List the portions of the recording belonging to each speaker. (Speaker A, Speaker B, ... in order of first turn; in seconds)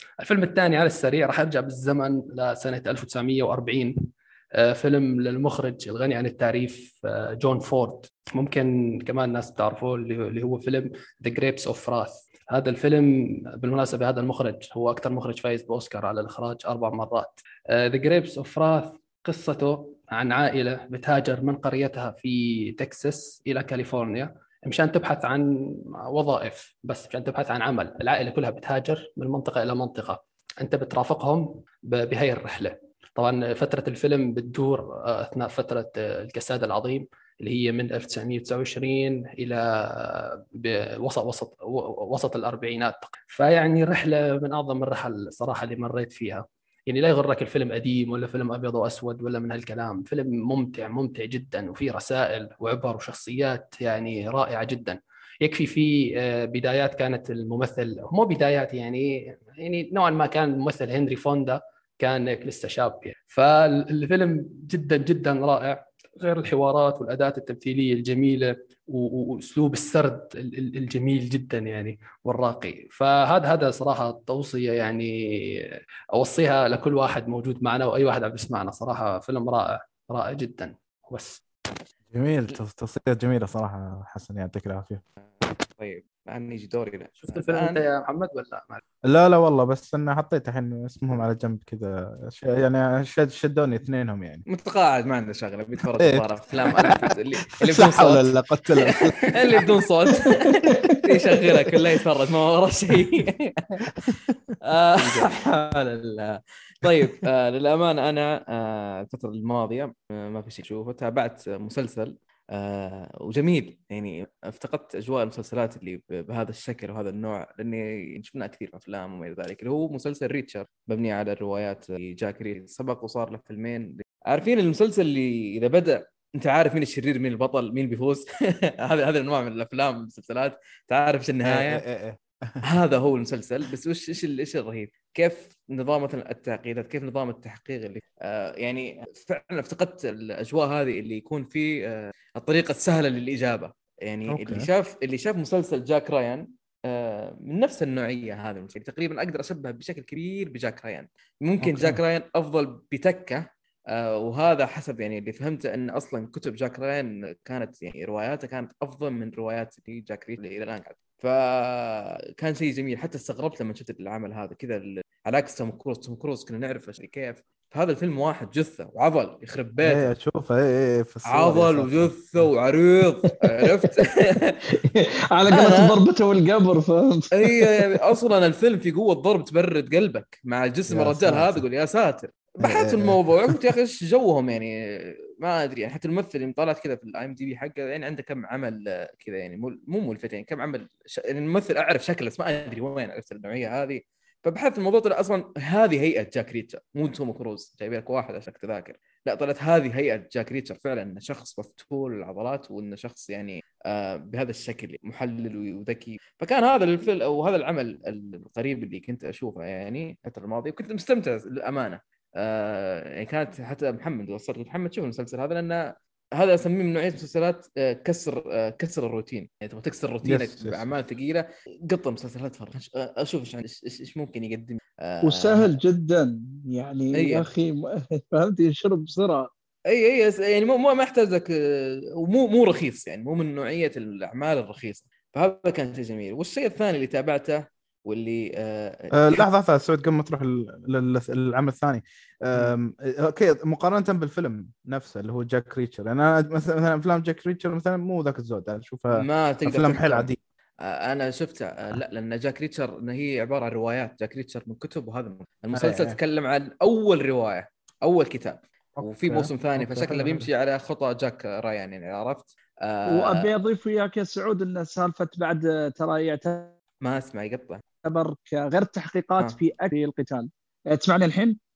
Speaker A: 0.2-4.0, 4.6-81.4, 87.2-88.8
Speaker B: 82.1-85.0, 89.1-94.4, 96.0-99.7, 104.0-104.3, 105.0-105.3, 106.9-107.2, 131.4-132.6, 144.3-144.7, 151.6-152.0, 169.8-172.5, 180.9-181.6, 182.6-183.6, 220.2-220.9, 239.1-250.4, 255.7-256.2, 259.0-260.5
Speaker C: 85.2-87.8, 94.5-104.1, 104.7-131.8, 132.6-170.1, 171.3-174.6, 175.5-176.0, 177.3-225.7, 227.2-227.5, 229.9-239.5, 249.1-250.3, 250.8-263.5, 267.0-267.8
Speaker D: 174.7-177.8, 225.2-229.5, 263.1-266.7, 268.0-271.6